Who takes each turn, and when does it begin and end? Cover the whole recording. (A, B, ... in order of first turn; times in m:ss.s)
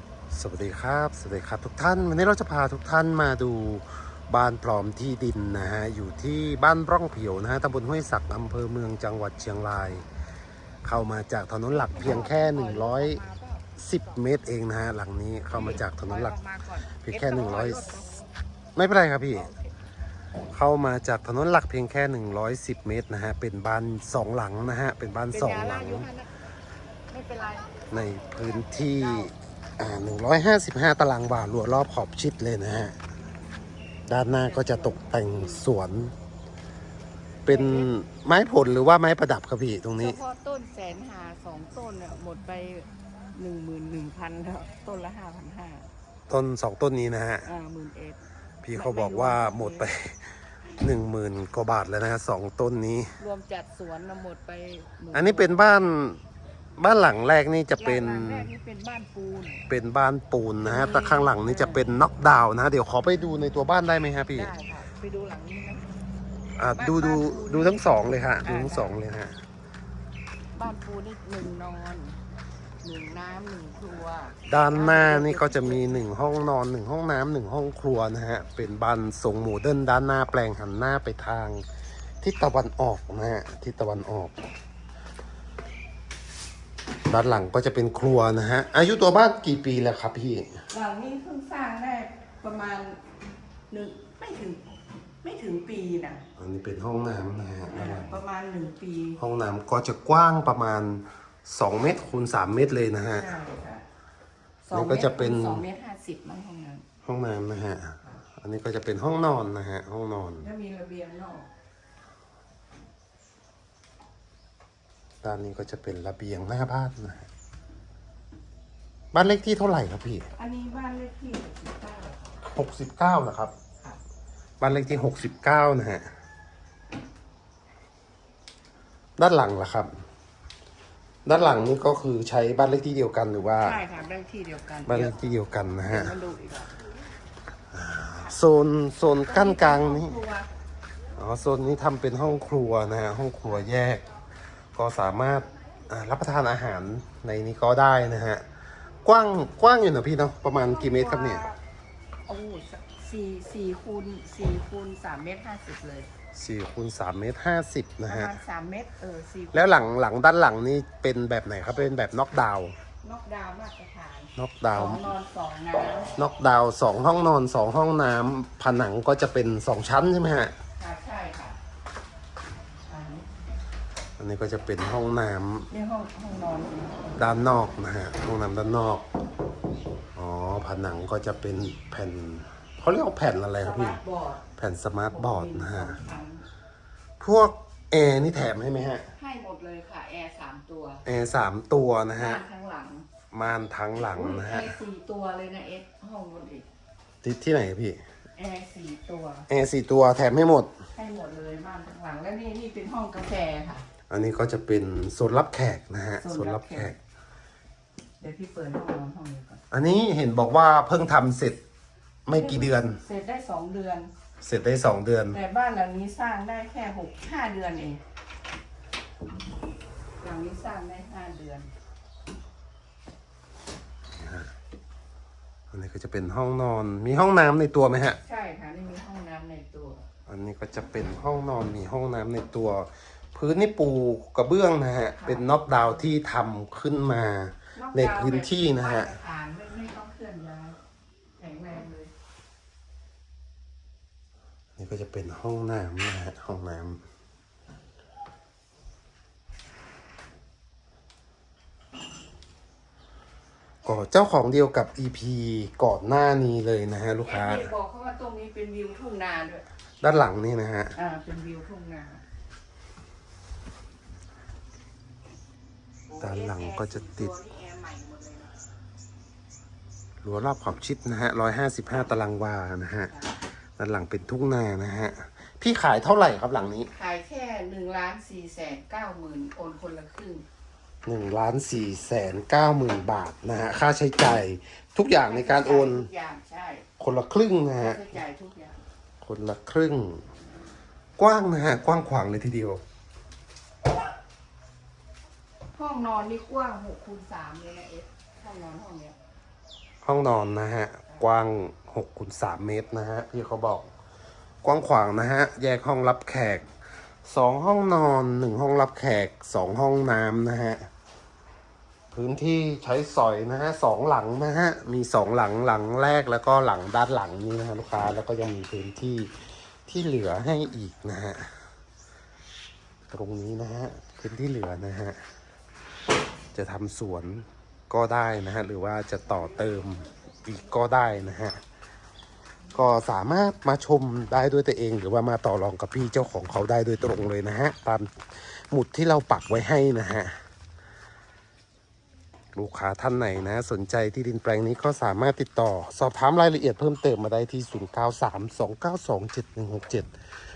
0:00.3-0:10.1 A
0:10.8-0:13.2 A
0:11.7-0:13.7 B
0:13.8-0:16.4 A
0:15.5-0:18.2 B
0:17.0-0:18.0 A
0:18.8-0:19.5 A
0:20.5-0:26.1 A
0:25.3-0:26.3 B
0:27.1-0:27.8 B
0:27.9-0:33.0 A
0:34.1-0:36.1 A
0:34.2-0:35.6 B
0:37.4-0:40.2 A
0:37.5-0:37.9 B
0:40.0-0:45.9 B
0:46.3-0:47.5 A
0:47.5-0:48.2 B
0:48.6-0:53.1 A
0:48.7-0:49.9 B
0:53.2-0:55.7 B
0:55.1-0:56.2 A
0:56.8-0:58.5 A
0:57.8-0:59.6 B
0:59.7-1:04.5 A
1:00.6-1:01.9 B
1:04.3-1:05.9 B
1:06.6-1:09.4 A
1:06.7-1:07.8 B
1:08.4-1:09.0 B
1:10.6-1:12.2 B
1:12.8-1:16.1 B
1:14.5-1:21.6 A
1:22.2-1:24.4 A
1:27.1-1:30.5 A
1:30.7-1:33.0 B
1:33.7-1:34.6 B
1:35.2-1:36.2 B
1:36.4-1:38.2 A
1:37.7-1:39.2 B
1:39.2-1:43.3 A
1:43.2-1:43.8 B
1:44.6-1:46.8 B
1:44.7-1:45.6 A
1:47.0-1:50.5 A
1:50.4-1:51.5 B
1:55.2-1:57.3 A
1:59.1-2:00.3 A
2:00.4-2:02.4 B
2:02.4-2:03.5 A
2:04.6-2:06.0 A
2:09.2-2:09.9 A
2:11.2-2:13.8 A
2:13.6-2:15.2 B
2:14.9-2:16.2 A
2:15.8-2:16.7 B
2:17.7-2:20.2 A
2:19.2-2:20.5 B
2:21.2-2:24.0 A
2:24.7-2:28.4 A
2:29.0-2:31.4 A
2:30.5-2:31.6 B
2:32.3-2:36.1 B
2:36.3-2:38.4 A
2:38.1-2:39.8 B
2:39.5-2:42.8 A
2:43.0-2:46.1 B
2:44.4-2:45.1 A
2:46.2-2:50.5 A
2:50.8-2:51.6 B
2:52.9-2:53.3 B
2:54.2-2:55.7 A
2:55.7-2:57.3 B
2:57.2-2:59.1 A
3:00.2-3:04.0 A
3:03.6-3:04.4 B
3:04.6-3:06.0 A
3:05.1-3:06.4 B
3:07.2-3:09.1 A
3:09.2-3:11.0 B
3:11.0-3:12.4 A
3:12.2-3:13.1 B
3:13.3-3:14.8 A
3:14.1-3:16.7 B
3:17.2-3:18.0 A
3:18.4-3:19.5 B
3:19.5-3:20.7 A
3:21.0-3:23.9 B
3:24.1-3:27.0 A
3:26.2-3:26.9 B
3:28.2-3:29.6 B
3:29.7-3:31.6 A
3:32.3-3:33.0 A
3:32.3-3:34.1 B
3:34.4-3:35.4 A
3:35.3-3:38.0 B
3:40.2-3:41.7 B
3:44.2-3:44.5 A
3:45.7-3:48.2 A
3:48.2-3:50.0 B
3:50.3-3:59.1 A
3:55.2-3:56.1 B
3:57.8-4:00.8 B
4:01.4-4:02.1 B
4:04.8-4:07.0 A
4:13.8-4:17.7 A
4:17.2-4:19.7 B
4:20.0-4:21.0 A
4:21.0-4:22.2 B
4:26.1-4:28.6 B
4:26.2-4:27.3 A
4:30.2-4:33.1 A
4:33.1-4:33.3 B
4:33.8-4:36.9 A
4:36.9-4:40.5 B
4:41.1-4:46.1 A
4:45.2-4:46.8 B
4:47.0-4:48.1 A
4:47.8-4:48.8 B
4:49.2-4:50.2 A
4:51.2-4:52.8 A
4:55.8-4:59.2 B
5:00.0-5:03.9 A
5:04.6-5:06.7 A
5:07.2-5:10.9 A
5:12.1-5:19.3 A
5:19.9-5:21.6 A
5:23.1-5:25.2 A
5:26.5-5:31.6 A
5:32.7-5:38.1 A
5:38.7-5:40.3 A
5:42.6-5:50.1 A